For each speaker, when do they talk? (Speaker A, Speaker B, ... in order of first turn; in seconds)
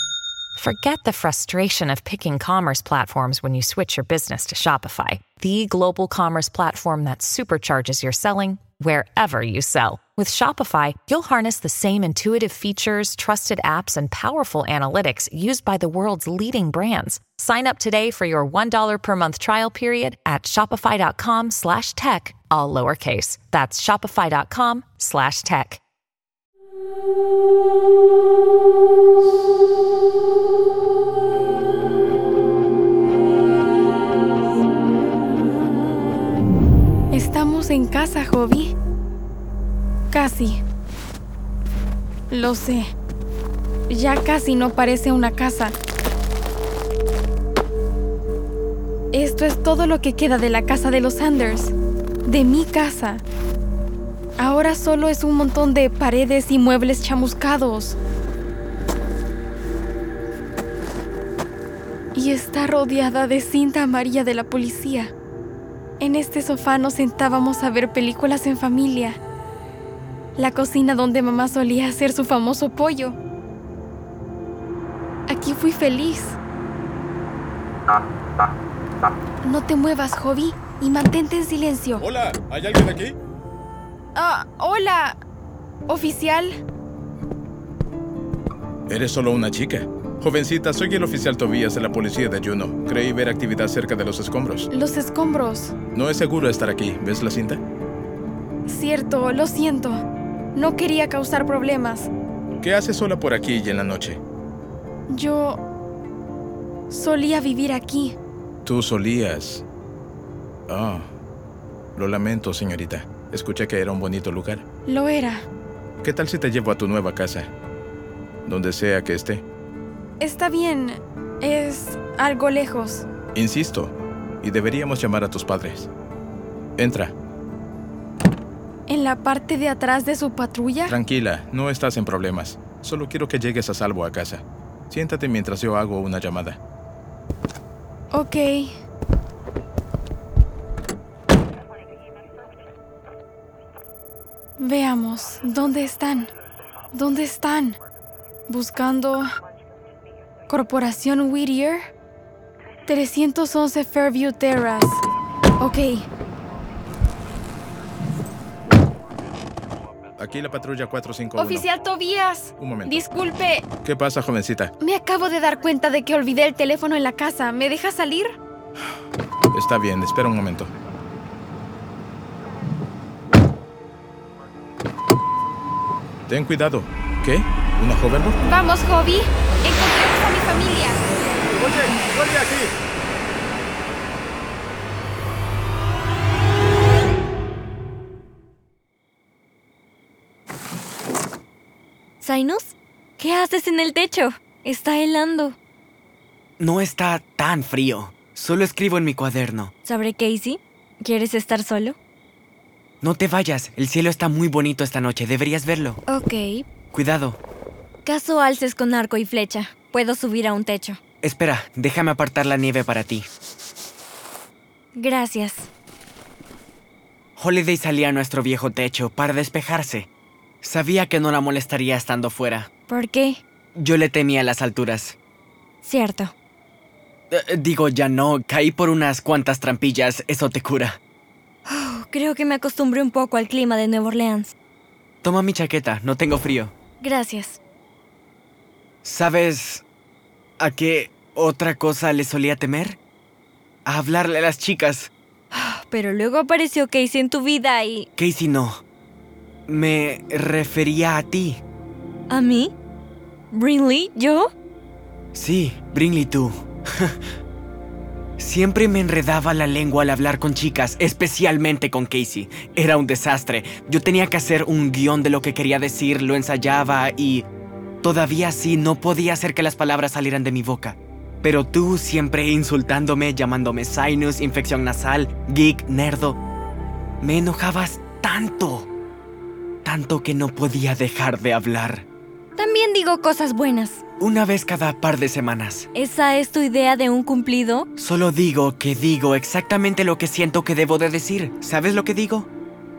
Speaker A: 0.6-25.8
Speaker B: 37.1-38.7, 40.1-40.6, 42.3-42.9, 43.9-45.8, 49.1-51.7, 52.2-53.2, 54.4-58.0, 62.1-65.1, 66.0-69.2, 70.4-73.2, 75.3-76.4, 79.4-82.0, 84.1-85.2, 85.9-86.6, 94.7-95.7, 98.7-100.0, 100.5-102.1, 105.1-105.6, 106.9-108.2, 114.9-115.5, 120.2-123.0, 128.9-130.9, 138.1-138.7, 144.6-146.3, 146.9-147.8, 148.5-149.3, 150.5-151.9, 152.9-155.0, 155.6-156.1, 161.4-163.7, 164.8-168.3, 178.4-181.0
Speaker C: 82.0-83.1, 88.9-94.7, 95.9-97.6, 102.6-104.2, 108.6-109.6, 110.7-111.1, 112.0-114.6, 116.0-117.5, 118.5-119.4, 123.3-125.9, 126.8-127.1, 130.8-136.6, 160.2-161.7, 162.6-163.1, 163.8-164.7, 169.5-170.7, 176.3-178.4, 181.5-182.7
Speaker D: 192.2-195.6, 199.8-201.9, 206.1-206.7, 208.0-211.0, 214.9-215.7, 222.9-223.4, 225.8-226.3, 231.7-234.5, 237.0-237.6, 245.5-248.1, 252.3-252.7, 253.5-254.5, 282.6-284.0, 285.9-287.9
Speaker E: 196.6-199.7, 203.0-206.0, 206.8-207.4, 211.2-213.3, 217.4-220.1, 220.6-222.7, 223.7-225.2, 227.3-231.0, 235.2-236.7, 239.0-239.8, 240.6-243.0, 243.8-245.1, 248.2-248.8, 249.7-251.6, 255.3-257.1, 258.4-267.4, 268.0-276.4, 277.2-278.9, 279.8-282.0, 284.2-285.9, 288.0-292.5